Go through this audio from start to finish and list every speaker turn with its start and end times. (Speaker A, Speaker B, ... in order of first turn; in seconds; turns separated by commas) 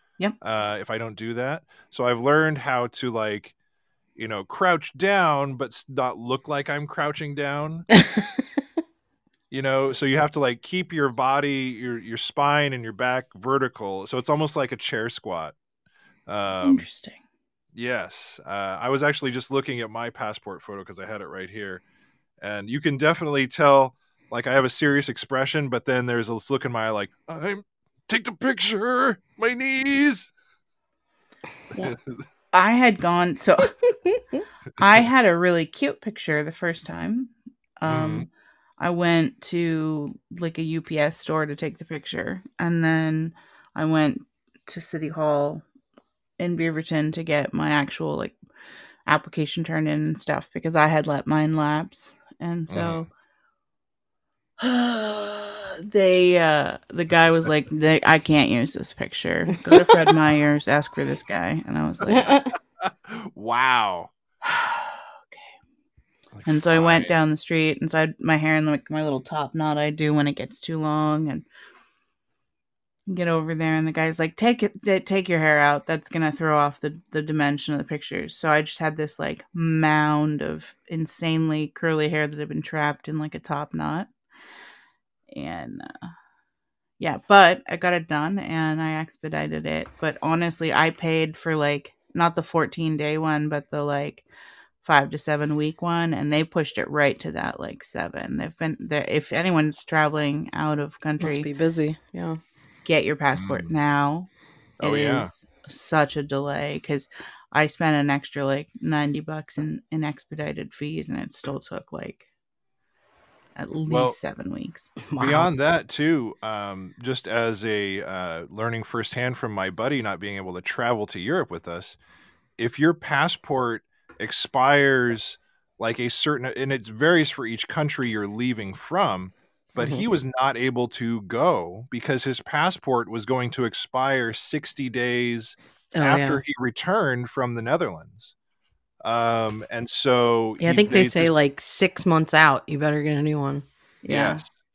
Speaker A: 0.4-3.5, Speaker A: 4.2-7.9, Speaker A: 9.5-15.5, Speaker A: 16.3-16.9, Speaker B: 16.6-17.2, Speaker A: 17.8-21.8, Speaker A: 22.4-30.3, Speaker A: 31.8-32.2, Speaker B: 32.5-33.8, Speaker B: 34.8-45.6, Speaker A: 37.9-38.3, Speaker B: 46.4-48.4, Speaker B: 49.1-53.1, Speaker A: 52.7-53.1, Speaker B: 54.6-62.4, Speaker C: 62.1-62.5, Speaker A: 62.1-64.1, Speaker B: 64.4-65.5, Speaker A: 66.3-67.1, Speaker B: 66.5-71.5, Speaker B: 73.1-84.1, Speaker B: 85.3-85.9, Speaker B: 87.0-94.2, Speaker B: 94.8-101.5, Speaker C: 101.2-102.4, Speaker B: 102.8-104.3, Speaker A: 103.3-103.7, Speaker A: 104.8-105.3, Speaker B: 104.8-112.2, Speaker B: 113.6-114.9, Speaker A: 113.9-114.2, Speaker C: 115.1-115.5, Speaker A: 115.2-122.0, Speaker A: 122.6-138.3, Speaker C: 129.8-130.0, Speaker C: 136.0-136.4, Speaker A: 139.0-141.3, Speaker C: 140.6-143.7, Speaker B: 144.0-144.4, Speaker A: 144.1-144.5